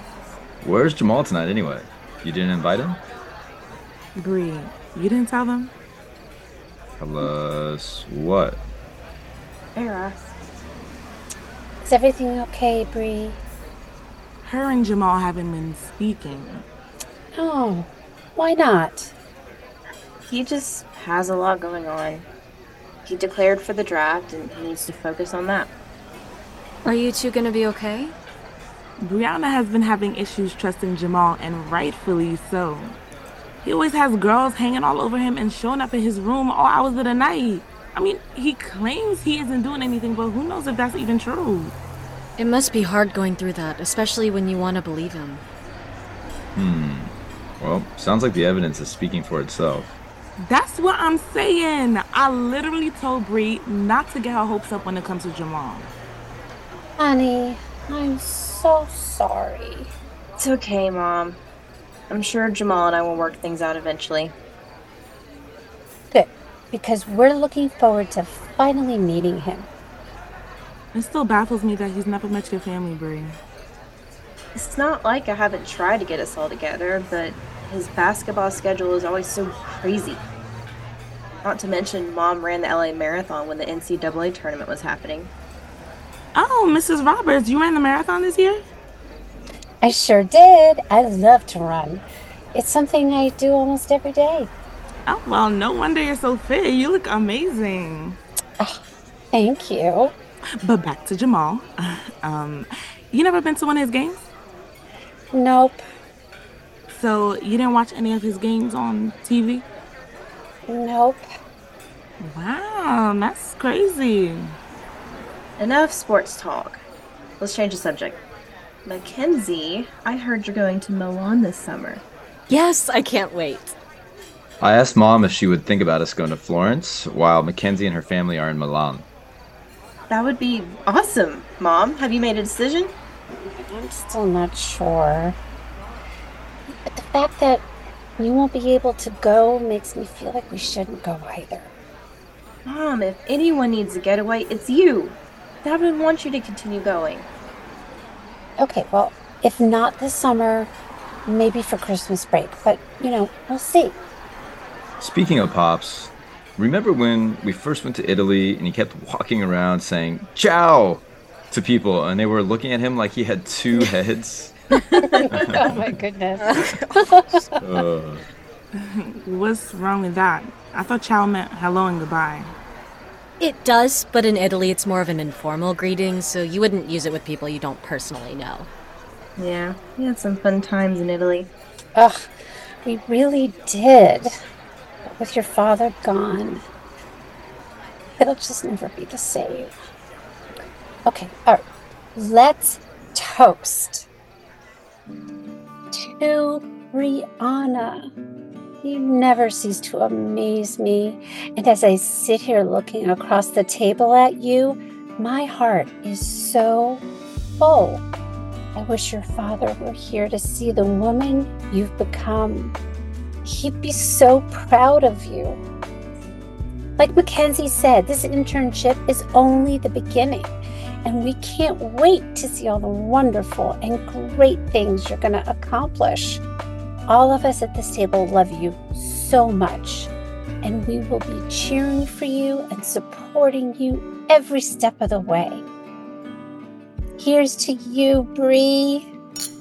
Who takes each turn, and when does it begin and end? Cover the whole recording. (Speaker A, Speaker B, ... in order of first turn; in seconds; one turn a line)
Speaker A: 0.6-3.0
Speaker B: 4.2-5.7
Speaker A: 7.0-8.6
Speaker C: 9.8-10.3
Speaker D: 11.8-13.4
Speaker B: 14.4-16.6
Speaker D: 17.4-19.1
Speaker C: 20.2-22.2
Speaker C: 23.1-25.7
Speaker E: 26.9-28.1
Speaker B: 29.0-33.0
Speaker B: 33.6-41.7
Speaker E: 42.4-45.4
Speaker A: 46.6-49.9
Speaker B: 50.4-55.9
Speaker D: 57.0-59.9
Speaker C: 60.4-61.4
Speaker C: 62.1-64.3
Speaker D: 66.1-69.7
Speaker B: 70.9-73.4
Speaker C: 74.6-80.2
Speaker C: 81.4-85.3
Speaker B: 86.3-88.6
Speaker D: 89.8-94.5
Speaker B: 95.1-98.2
Speaker D: 99.3-100.1
Speaker B: 100.6-104.2
Speaker D: 105.3-105.8
Speaker B: 106.9-109.6
Speaker D: 110.7-111.2
Speaker B: 112.2-114.5
Speaker C: 115.6-116.8
Speaker C: 117.4-118.2
Speaker C: 118.8-122.0
Speaker E: 122.5-123.8
Speaker A: 124.6-129.1
Speaker C: 130.1-132.9
Speaker D: 133.3-135.4
Speaker D: 136.9-137.6
Speaker D: 138.2-141.7
Speaker C: 142.7-147.3
Speaker D: 148.6-150.7
Speaker D: 151.2-154.0
Speaker A: 155.0-164.5
Speaker D: 164.9-167.8
Speaker A: 165.3-165.7
Speaker A: 167.6-168.2
Speaker B: 168.8-172.5
Speaker E: 173.4-178.7
Speaker C: 179.4-181.5
Speaker D: 182.0-182.2
Speaker D: 182.8-184.3
Speaker D: 185.1-186.6
Speaker D: 188.2-189.7
Speaker D: 191.1-191.6
Speaker D: 192.2-194.1
Speaker D: 196.0-198.1
Speaker D: 198.8-207.0
Speaker D: 207.6-208.0
Speaker D: 208.8-212.7
Speaker D: 213.4-215.6
Speaker D: 217.0-220.5
Speaker D: 221.0-226.4
Speaker D: 227.1-230.1
Speaker D: 230.6-235.7
Speaker D: 237.2-239.1